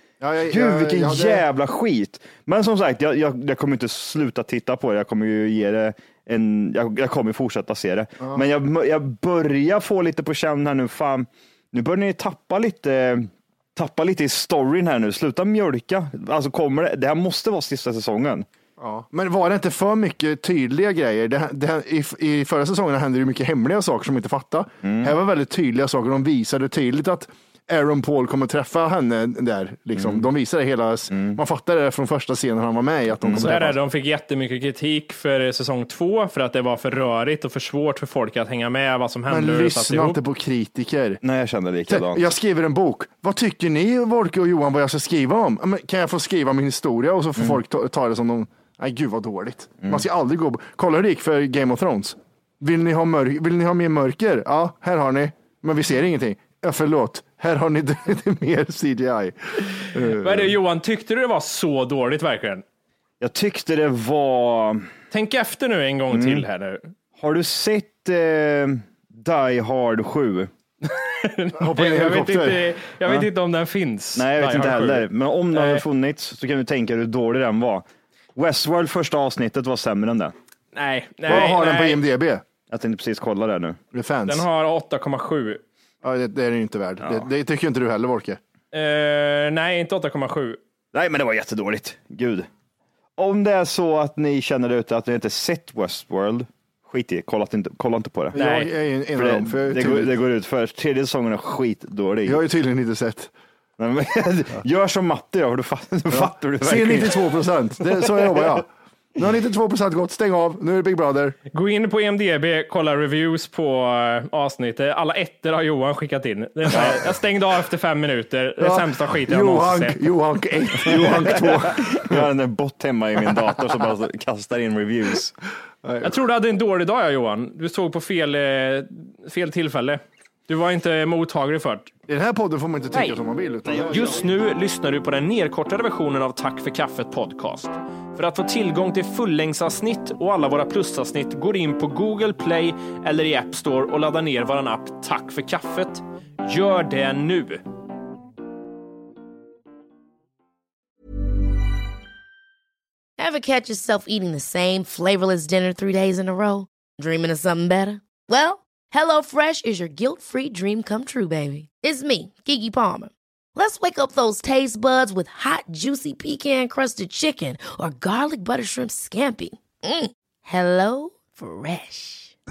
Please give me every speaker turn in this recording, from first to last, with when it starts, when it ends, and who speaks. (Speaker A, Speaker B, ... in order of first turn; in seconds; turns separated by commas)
Speaker A: 0.2-1.4, Speaker B: 0.5-18.4, Speaker A: 8.2-8.4, Speaker A: 18.8-33.8, Speaker B: 24.8-25.1, Speaker B: 29.9-30.3, Speaker B: 31.1-31.4, Speaker B: 33.2-33.5, Speaker C: 33.4-40.2, Speaker A: 39.3-41.2, Speaker B: 41.2-42.2, Speaker A: 41.9-60.6, Speaker C: 60.1-62.6, Speaker B: 63.2-64.9, Speaker C: 65.1-66.9, Speaker B: 66.1-66.4, Speaker B: 67.2-70.5, Speaker C: 70.8-75.8, Speaker A: 71.6-72.7, Speaker B: 74.1-80.3, Speaker C: 80.7-82.0, Speaker A: 81.3-82.4, Speaker B: 82.7-83.8, Speaker A: 83.9-84.5, Speaker C: 84.3-85.6, Speaker A: 86.0-88.4, Speaker C: 88.7-90.6, Speaker B: 90.9-92.5, Speaker B: 93.2-98.4, Speaker A: 98.3-100.2, Speaker C: 98.3-98.7, Speaker B: 99.2-102.4, Speaker A: 102.2-103.3, Speaker B: 103.8-107.2, Speaker A: 106.1-111.4, Speaker B: 108.0-108.6, Speaker C: 111.5-120.0, Speaker B: 116.7-117.0, Speaker A: 118.6-122.3, Speaker B: 121.3-125.3, Speaker A: 125.8-126.2, Speaker C: 126.0-131.9, Speaker A: 132.1-134.2, Speaker C: 132.9-133.2, Speaker B: 133.7-134.2, Speaker C: 133.9-147.6, Speaker D: 153.2-172.3